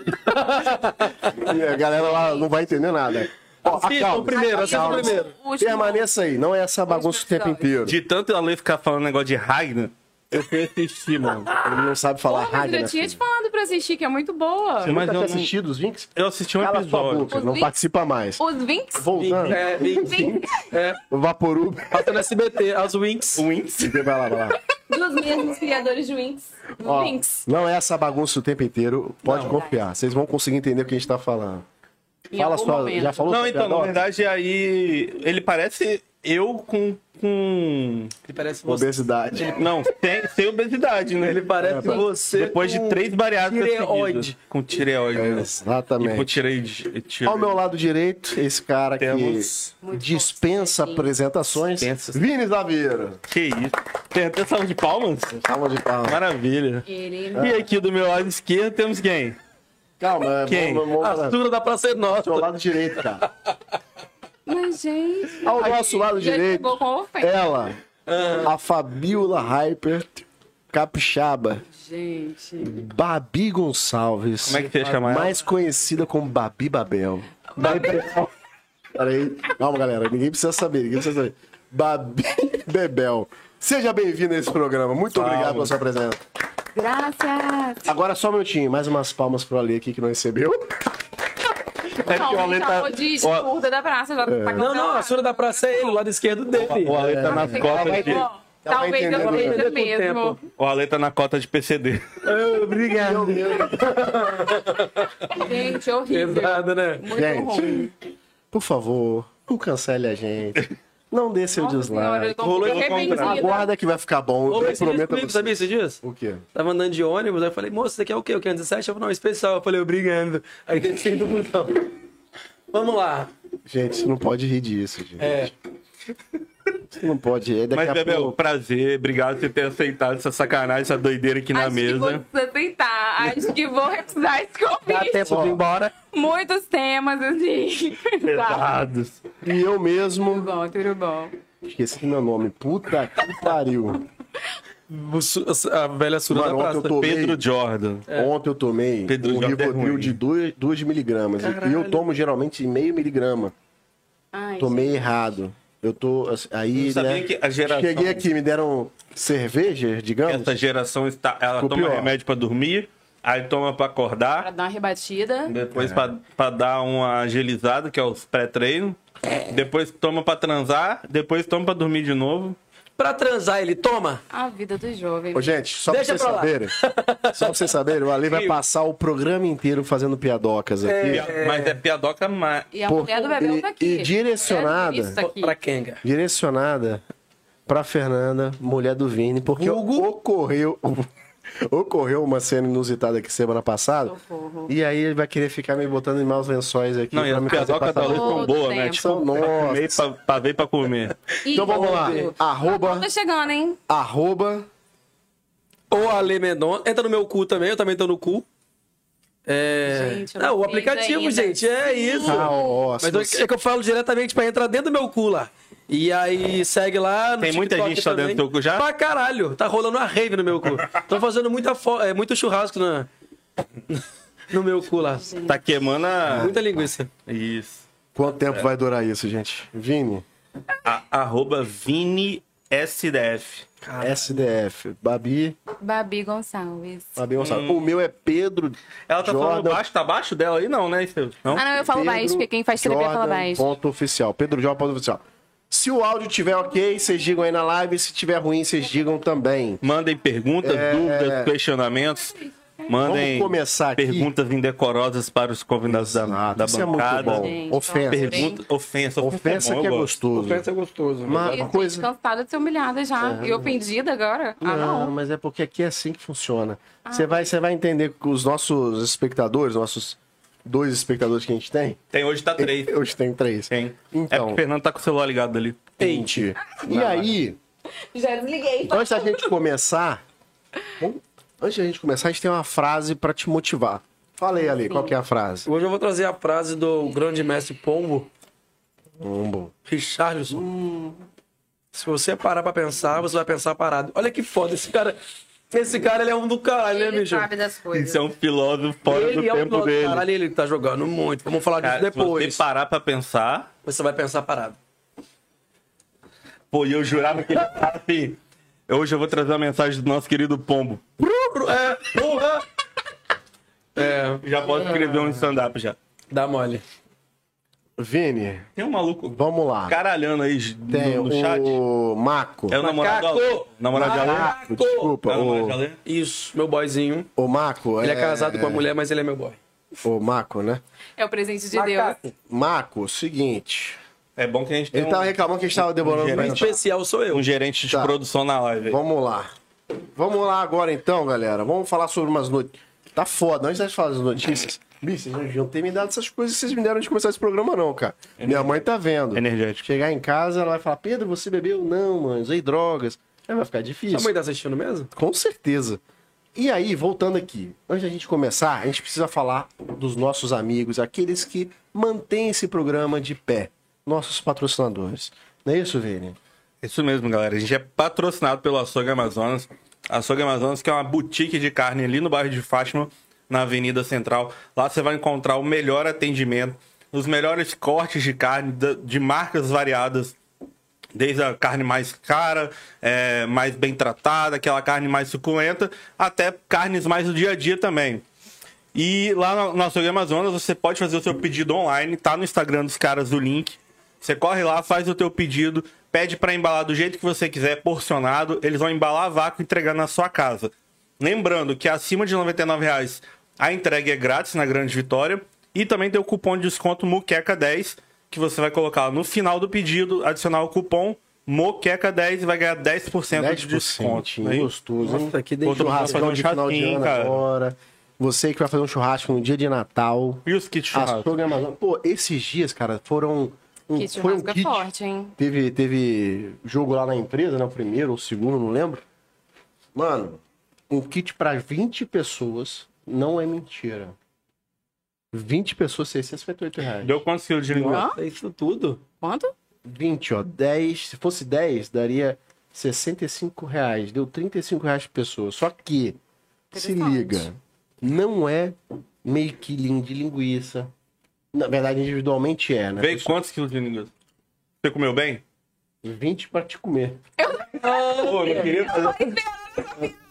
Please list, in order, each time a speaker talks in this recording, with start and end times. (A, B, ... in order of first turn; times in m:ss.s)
0:00.1-0:01.6 A
0:01.4-0:08.0 B
0:01.9-0:02.4 C
0:03.6-0:05.3 A
0:04.3-0:06.1 C
0:06.9-0:07.7 C
0:07.8-0:11.5 D
0:11.6-0:13.2 B
0:12.3-0:15.0 C
0:14.8-0:15.5 D
0:14.8-0:18.4 B
0:16.2-0:17.3 D
0:17.3-0:17.7 C
0:18.4-0:20.5 C
0:18.9-0:20.5 B
0:19.1-0:21.0 A
0:21.1-0:22.1 B
0:21.9-0:23.4 A
0:23.4-0:24.0 D
0:23.8-0:24.6 B
0:24.9-0:27.4 C
0:26.8-0:31.7 B
0:29.2-0:29.6 A
0:29.4-0:29.8 C
0:32.3-0:34.0 B
0:32.3-0:33.2 C
0:33.3-0:38.1 D
0:38.2-0:39.7 A
0:38.7-0:39.7 B
0:39.6-0:45.5 D
0:41.2-0:44.3 A
0:41.6-0:42.0 B
0:45.1-0:46.3 B
0:46.0-0:47.6 D
0:47.2-0:53.2 B
0:49.0-0:49.7 D
0:49.8-0:51.1 C
0:51.8-0:52.1 D
0:53.3-0:55.3 D
0:55.3-0:56.2 B
0:56.0-0:59.4 D
0:56.8-0:57.6 C
0:57.3-0:57.6 B
1:00.0-1:01.4 B
1:00.5-1:00.8 D
1:01.0-1:02.5 A
1:02.1-1:03.2 B
1:04.4-1:07.5 C
1:05.4-1:07.8 B
1:08.1-1:08.5 A
1:08.4-1:11.6 B
1:11.7-1:12.8 C
1:12.6-1:18.3 B
1:14.4-1:15.4 D
1:14.4-1:15.0 A
1:17.6-1:18.1 A
1:17.6-1:17.9 C
1:18.9-1:26.2 B
1:25.1-1:25.7 D
1:26.8-1:27.9 C
1:27.8-1:30.7 B
1:32.0-1:33.5 D
1:32.0-1:36.0 C
1:34.2-1:34.7 B
1:34.6-1:37.0 A
1:36.5-1:38.3 D
1:36.9-1:39.7 B
1:37.2-1:40.4 C
1:39.1-1:40.4 A
1:40.6-1:42.0 D
1:42.2-1:45.4 A
1:42.8-1:44.1 B
1:45.3-1:47.9 C
1:46.1-1:47.1 A
1:47.1-1:47.9 B
1:48.5-1:56.4 B
1:51.6-1:53.7 C
1:52.4-1:53.5 D
1:54.5-1:56.0 A
1:56.5-2:01.9 A
2:02.7-2:03.3 A
2:03.7-2:05.5 B
2:05.2-2:05.5 A
2:06.9-2:08.4 B
2:07.7-2:12.2 D
2:11.5-2:15.4 C
2:14.8-2:15.9 A
2:15.2-2:15.6 B
2:16.0-2:18.7 C
2:18.2-2:19.2 D
2:19.4-2:20.5 B
2:20.2-2:21.3 C
2:21.6-2:24.0 B
2:24.9-2:27.0 A
2:26.3-2:27.4 B
2:27.0-2:28.0 D
2:28.1-2:33.5 B
2:29.1-2:30.2 D
2:31.4-2:32.1 A
2:34.3-2:35.2 C
2:34.6-2:40.6 B
2:36.7-2:38.3 D
2:40.2-2:44.5 D
2:41.6-2:42.1 B
2:44.4-2:45.5 C
2:45.5-2:52.6 D
2:45.7-2:46.1 B
2:53.0-2:54.2 A
2:54.3-2:55.5 C
2:55.3-2:56.8 B
2:55.9-2:58.6 A
2:57.3-3:01.3 B
3:00.8-3:01.8 A
3:01.1-3:02.7 D
3:02.7-3:05.6 C
3:02.8-3:05.2 B
3:05.2-3:06.0 A
3:06.0-3:07.0 B
3:07.7-3:11.1 B
3:09.5-3:10.1 A
3:11.6-3:14.2 B
3:14.0-3:14.7 C
3:14.7-3:20.0 B
3:17.1-3:21.2 D
3:17.5-3:19.3 C
3:21.4-3:22.3 A
3:21.5-3:23.8 C
3:21.5-3:23.1 B
3:23.9-3:24.7 B
3:25.9-3:28.5 A
3:29.5-3:43.1 A
3:29.9-3:32.6 C
3:32.2-3:33.5 B
3:37.4-3:38.8 D
3:43.9-3:45.4 A
3:45.2-3:45.6 C
3:45.5-3:46.5 D
3:46.2-3:46.8 B
3:46.3-3:47.1 A
3:47.2-3:47.8 D
3:48.2-3:50.2 B
3:50.8-3:53.7 D
3:53.8-3:54.5 A
3:54.0-3:55.6 B
3:55.8-3:57.2 C
3:57.2-3:59.8 B
3:57.4-3:57.8 D
3:59.1-4:01.6 D
4:01.5-4:03.7 C
4:01.7-4:09.8 B
4:09.8-4:12.4 D
4:10.6-4:11.5 B
4:12.9-4:20.1 D
4:13.0-4:14.3 B
4:15.9-4:18.6 B
4:17.2-4:18.5 C
4:19.2-4:20.6 B
4:20.3-4:21.6 A
4:21.2-4:22.1 B
4:21.5-4:25.1 C
4:23.2-4:23.7 B
4:24.6-4:32.0 B
4:27.0-4:27.5 C
4:32.1-4:33.0 D
4:32.6-4:34.6 B
4:33.7-4:35.9 D
4:36.0-4:37.3 A
4:36.0-4:37.6 B
4:38.1-4:39.5 C
4:38.9-4:40.2 B
4:41.0-4:45.7 B
4:44.9-4:45.1 C
4:45.6-4:48.3 A
4:49.2-4:49.7 B
4:49.9-4:50.6 A
4:50.5-4:51.2 B
4:51.9-4:55.2 A
4:55.7-4:57.5 A
4:56.9-4:58.2 C
4:57.9-5:00.2 D
4:59.0-5:02.6 A
5:01.8-5:03.7 D
5:03.8-5:04.8 A
5:06.7-5:11.0 D
5:11.2-5:12.6 A
5:12.0-5:12.6 D
5:14.0-5:15.5 A
5:14.4-5:16.0 D
5:16.3-5:16.8 A
5:18.0-5:18.6 B
5:18.8-5:21.8 D
5:19.2-5:20.0 B
5:20.9-5:22.8 B
5:22.7-5:24.6 D
5:22.7-5:25.1 A
5:23.9-5:25.8 B
5:25.2-5:26.0 D
5:26.0-5:27.3 A
5:27.4-5:28.9 B
5:28.0-5:29.6 A
5:30.0-5:30.8 B
5:31.2-5:32.2 C
5:31.7-5:32.3 A
5:32.5-5:34.0 B
5:34.4-5:36.7 D
5:34.9-5:36.8 B
5:36.3-5:37.5 A
5:37.3-5:39.0 D
5:37.9-5:38.1 B
5:38.9-5:39.5 B
5:40.1-5:54.3 B
5:48.4-5:48.8 D
5:49.4-5:49.9 D
5:54.1-5:55.1 A
5:55.1-5:56.0 B
5:56.5-6:06.4 B
6:06.8-6:20.4 D
6:21.1-6:28.2 D
6:28.9-6:54.7 D
6:53.3-7:09.0 B
6:55.0-6:56.3 A
6:55.6-6:57.4 D
7:00.4-7:01.4 D
7:03.9-7:05.3 C
7:09.9-7:14.2 B
7:15.3-7:17.2 B
7:17.0-7:18.1 D
7:17.7-7:19.0 A
7:17.9-7:18.2 C
7:19.2-7:19.5 C
7:19.8-7:26.2 B
7:26.7-7:27.5 C
7:26.7-7:30.9 B
7:31.5-7:33.3 B
7:33.0-7:34.1 D
7:34.8-7:35.4 D
7:36.0-7:37.2 B
7:37.4-7:40.2 C
7:37.7-7:38.7 A
7:38.2-7:39.4 D